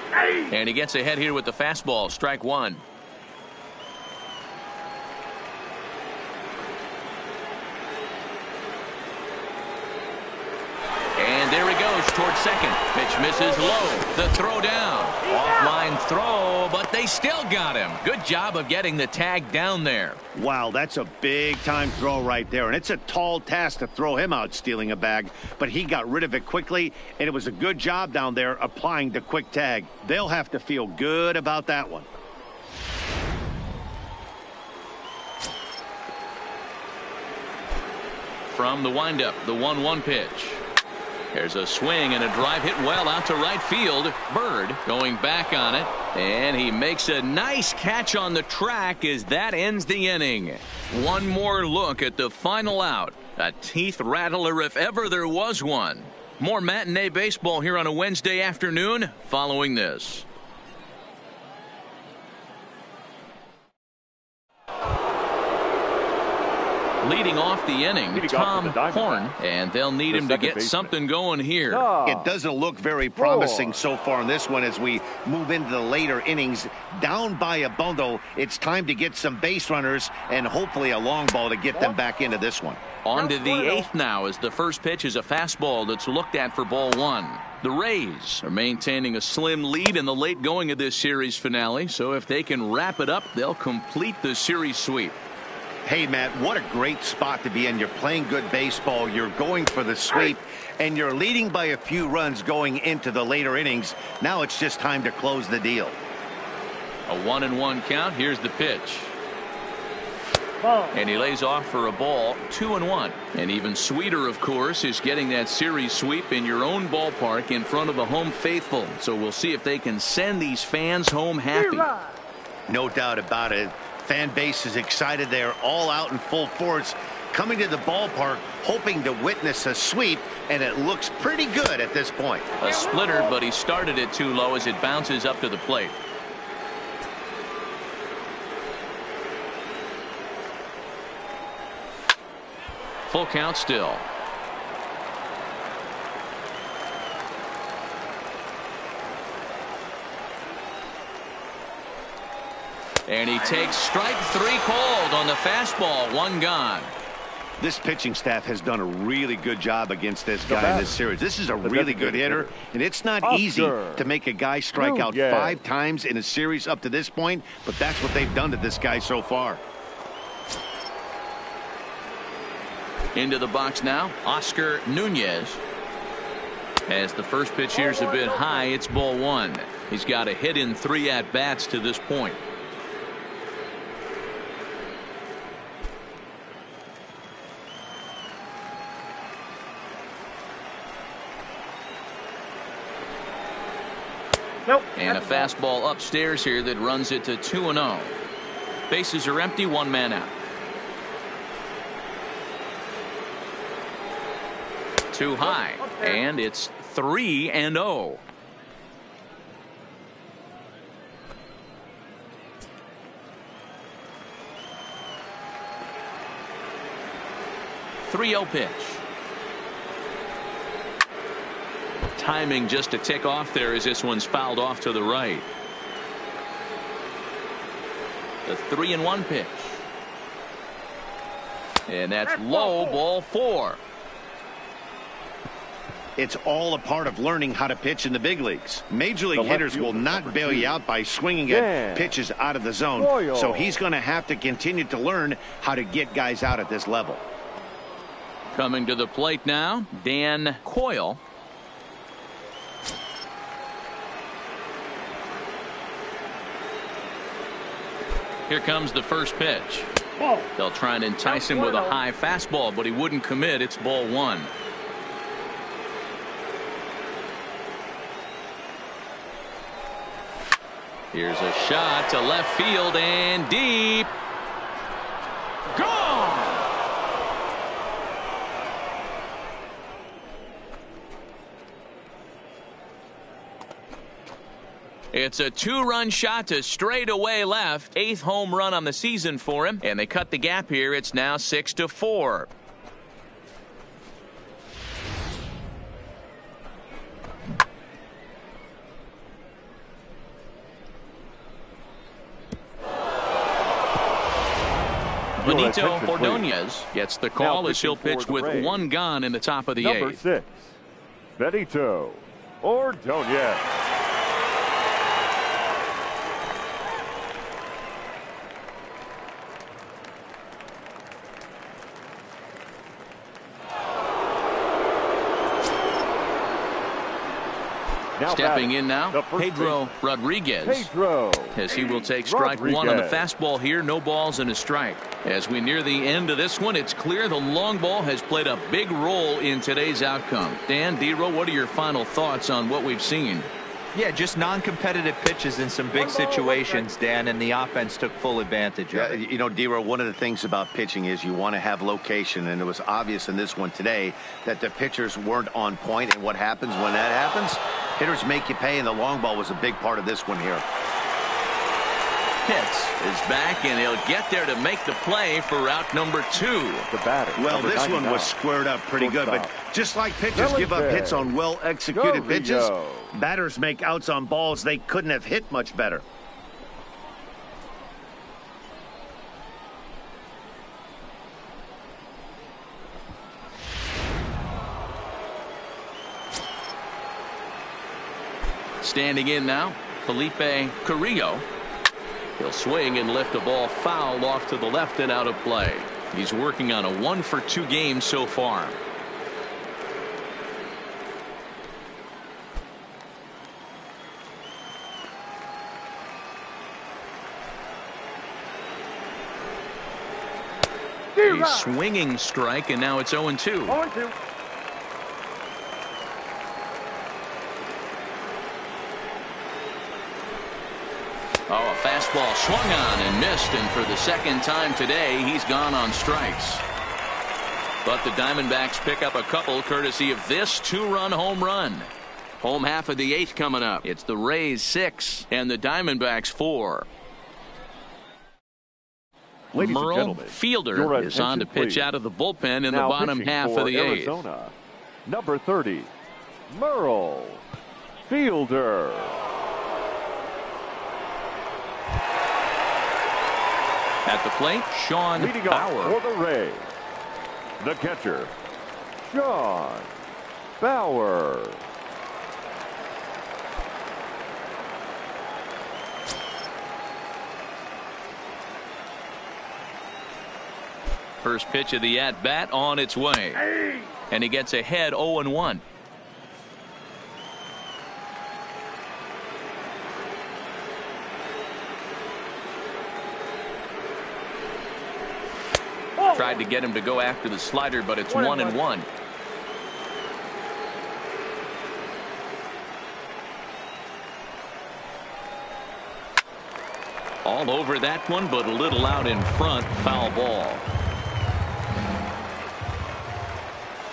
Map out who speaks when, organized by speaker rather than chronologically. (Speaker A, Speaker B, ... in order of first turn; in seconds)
Speaker A: 0.5-2.8, 11.2-20.2, 38.5-40.6, 41.3-60.3, 67.0-71.9, 83.0-95.2, 107.1-109.2, 110.9-121.9, 132.6-136.0, 143.1-144.1, 153.1-156.9, 173.2-175.6, 176.9-182.4, 194.9-198.2, 198.9-200.3, 205.1-208.2, 218.0-219.0, 222.2-225.5, 228.5-229.8, 231.9-233.8, 248.5-251.2, 258.5-259.9, 260.6-264.5, 271.1-274.1, 275.7-276.6, 285.1-292.5, 305.4-310.2, 328.3-330.9, 331.5-343.5, 362.4-366.9, 388.8-391.4, 392.4-398.8, 411.2-413.8, 421.5-426.6, 427.9-436.9, 439.6-444.2, 454.1-456.0, 471.2-473.4, 474.1-475.6, 486.1-488.9, 497.2-500.6
Speaker B: 15.3-15.8, 83.1-83.9, 110.6-111.0, 121.5-122.2, 132.6-133.4, 177.7-178.7, 194.7-195.5, 205.5-206.2, 232.3-233.0, 260.2-260.5, 261.2-262.0, 345.9-346.9, 411.2-411.7, 413.7-414.1, 486.0-486.4, 488.1-488.6
Speaker C: 20.3-32.1, 72.0-82.8, 95.8-106.0, 122.7-132.5, 157.6-169.6, 236.2-247.2, 348.9-360.6, 367.4-376.0
Speaker D: 68.1-69.3, 70.1-71.0, 71.7-72.3, 73.2-73.8, 160.5-161.0, 161.6-162.6, 163.2-164.1, 164.7-165.6, 239.3-240.8, 241.5-242.2, 243.0-243.8, 305.4-306.5, 307.4-308.9, 309.8-310.8, 311.4-313.7, 328.2-329.9, 330.6-333.3, 366.9-368.4, 368.9-369.5, 370.3-371.3, 371.9-373.1, 439.5-441.9, 442.7-444.5, 445.1-445.9, 446.5-447.4, 448.1-449.2, 455.2-456.7, 457.6-458.3, 459.0-459.9, 460.6-461.6
Speaker E: 343.9-349.2